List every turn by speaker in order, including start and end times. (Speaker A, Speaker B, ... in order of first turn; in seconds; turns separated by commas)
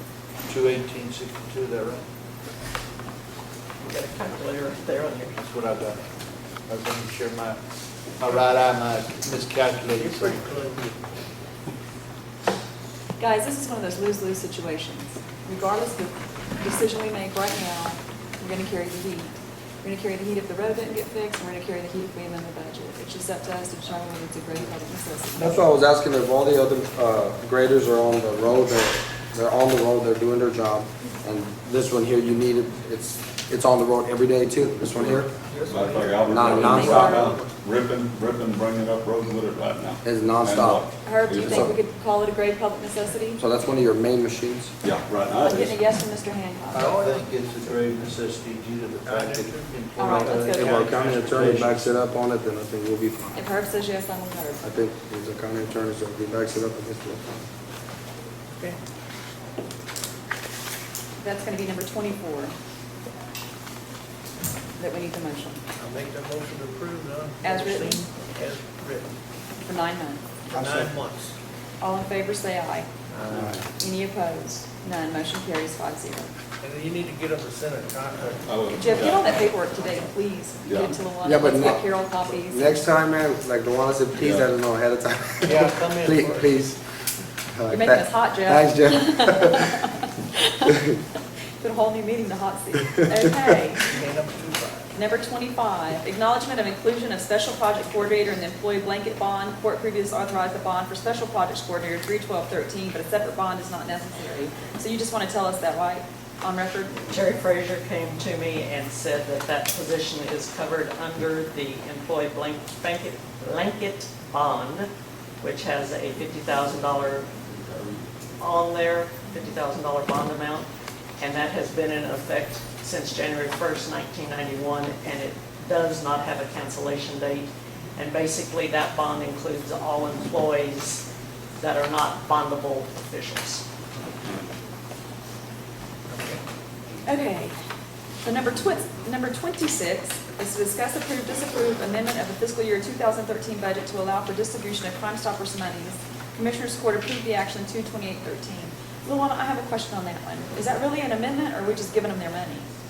Speaker A: 0.5-2.0, Speaker B: 3.8-5.3, Speaker A: 5.3-6.0, Speaker A: 6.7-7.6, Speaker A: 8.2-10.5, Speaker C: 10.0-11.0, Speaker D: 13.2-25.7, Speaker E: 25.4-35.3, Speaker F: 35.2-41.6, Speaker E: 36.2-37.2, Speaker D: 36.6-37.3, Speaker E: 40.0-41.7, Speaker D: 41.0-43.4, Speaker E: 43.4-44.7, Speaker F: 44.8-45.8, Speaker D: 45.4-46.9, Speaker A: 46.7-51.9, Speaker C: 46.9-47.3, Speaker C: 49.0-49.6, Speaker D: 50.0-50.9, Speaker E: 50.0-53.4, Speaker D: 53.3-54.6, Speaker E: 54.6-57.5, Speaker D: 61.2-62.5, Speaker D: 64.8-65.6, Speaker C: 65.8-69.1, Speaker D: 67.4-68.0, Speaker D: 69.6-70.2, Speaker E: 70.5-70.9, Speaker C: 70.5-71.3, Speaker D: 71.8-72.9, Speaker C: 73.1-73.4, Speaker E: 73.3-73.6, Speaker D: 73.8-76.3, Speaker C: 76.6-78.4, Speaker F: 78.4-79.4, Speaker D: 78.7-82.8, Speaker F: 80.7-80.9, Speaker E: 81.2-86.8, Speaker F: 84.2-84.5, Speaker C: 85.5-86.5, Speaker E: 87.5-89.7, Speaker D: 87.7-90.8, Speaker D: 91.6-93.9, Speaker C: 93.9-94.8, Speaker D: 94.9-107.0, Speaker B: 107.1-114.9, Speaker B: 115.4-117.3, Speaker B: 118.4-120.7, Speaker B: 121.2-131.0, Speaker B: 131.6-133.6, Speaker D: 137.1-137.5, Speaker D: 138.2-152.7